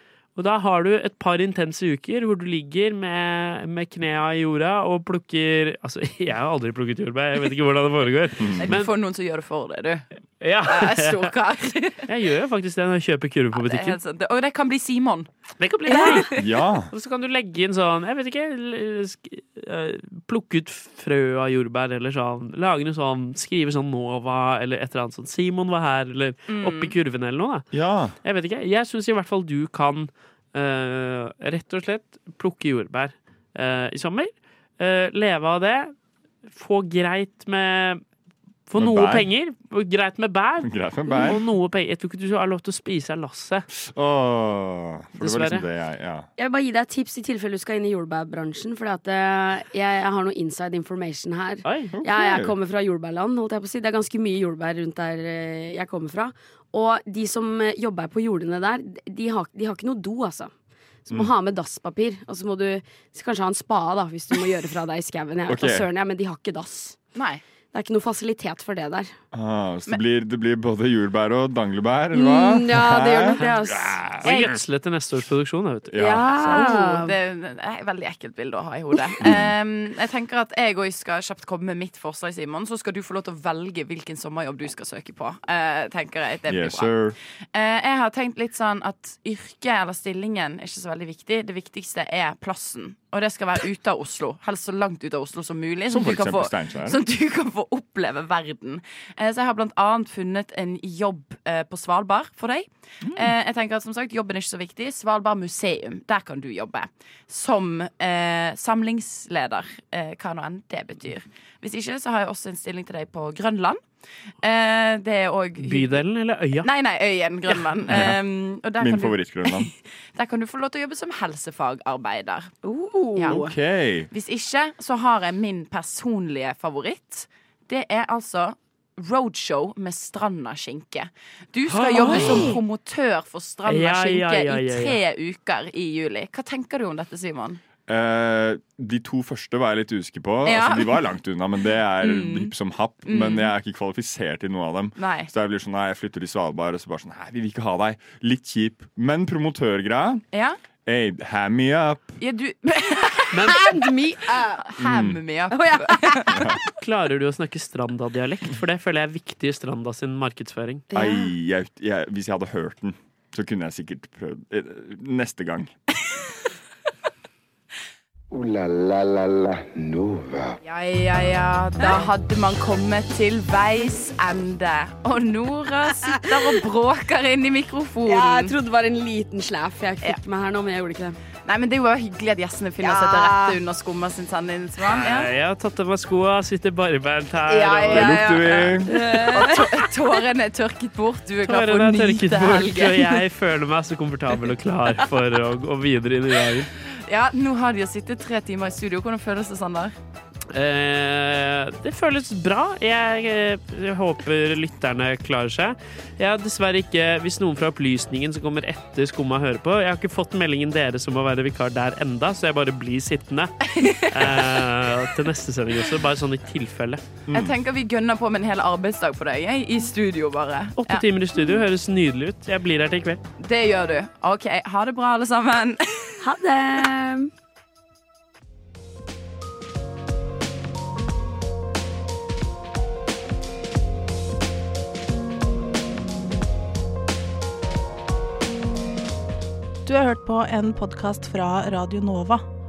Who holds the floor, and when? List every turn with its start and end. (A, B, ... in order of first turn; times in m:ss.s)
0:00.4-0:08.9 A
0:08.6-0:10.1 B
0:10.4-0:11.3 A
0:10.6-0:12.1 B
0:12.1-0:14.0 A
0:13.6-0:15.3 B
0:15.6-0:27.7 A
0:15.9-0:16.4 B
0:16.3-0:16.9 C
0:26.5-0:26.9 B
0:27.7-0:28.2 C
0:28.2-0:35.9 A
0:36.5-0:38.0 A
0:38.7-0:43.7 A
0:38.8-0:39.3 C
0:40.6-0:41.4 C
0:43.8-0:46.3 C
0:45.2-0:45.6 A
0:46.4-1:00.5 D
0:51.6-0:51.9 A
0:51.9-0:52.5 C
1:01.1-1:07.0 D
1:05.5-1:05.9 C
1:07.2-1:07.4 B
1:07.7-1:09.1 D
1:09.3-1:14.6 C
1:12.1-1:14.0 D
1:14.2-1:16.0 A
1:15.9-1:16.8 C
1:16.0-1:17.2 D
1:16.5-1:26.9 B
1:19.2-1:19.5 C
1:26.5-1:27.2 C
1:27.5-1:53.8 B
1:35.9-1:37.0 C
1:43.1-1:43.3 C
1:54.4-1:56.0 B
1:55.6-1:56.7 A
1:56.6-2:02.5 B
1:57.9-1:58.2 C
1:58.8-1:59.7 C
2:02.6-2:03.5 D
2:03.3-2:04.1 C
2:04.1-2:17.6 B
2:11.7-2:12.6 A
2:12.0-2:12.6 D
2:13.7-2:15.0 A
2:17.9-2:30.2 C
2:20.4-2:21.1 B
2:22.0-2:22.5 B
2:23.1-2:23.5 B
2:25.0-2:25.3 B
2:30.3-2:30.6 B
2:30.9-2:32.2 C
2:32.2-2:33.8 B
2:33.3-2:33.6 A
2:33.5-2:34.7 D
2:34.6-2:36.5 B
2:34.8-2:35.2 C
2:35.5-2:36.4 D
2:36.3-2:36.6 C
2:36.8-2:40.9 A
2:40.9-2:45.7 C
2:40.9-2:41.3 D
2:48.3-2:50.6 E
2:50.6-2:58.5 B
2:58.1-3:01.2 D
3:01.4-3:05.3 B
3:02.8-3:03.6 D
3:04.8-3:08.3 A
3:07.5-3:13.2 B
3:07.9-3:08.9 C
3:08.8-3:09.7 D
3:11.4-3:16.7 A
3:17.1-3:19.9 B
3:20.5-3:37.0 A
3:33.7-3:34.4 B
3:37.3-3:37.5 C
3:37.3-3:41.0 B
3:40.8-3:43.2 A
3:43.4-3:46.2 B
3:46.2-3:47.3 D
3:59.8-4:02.4 F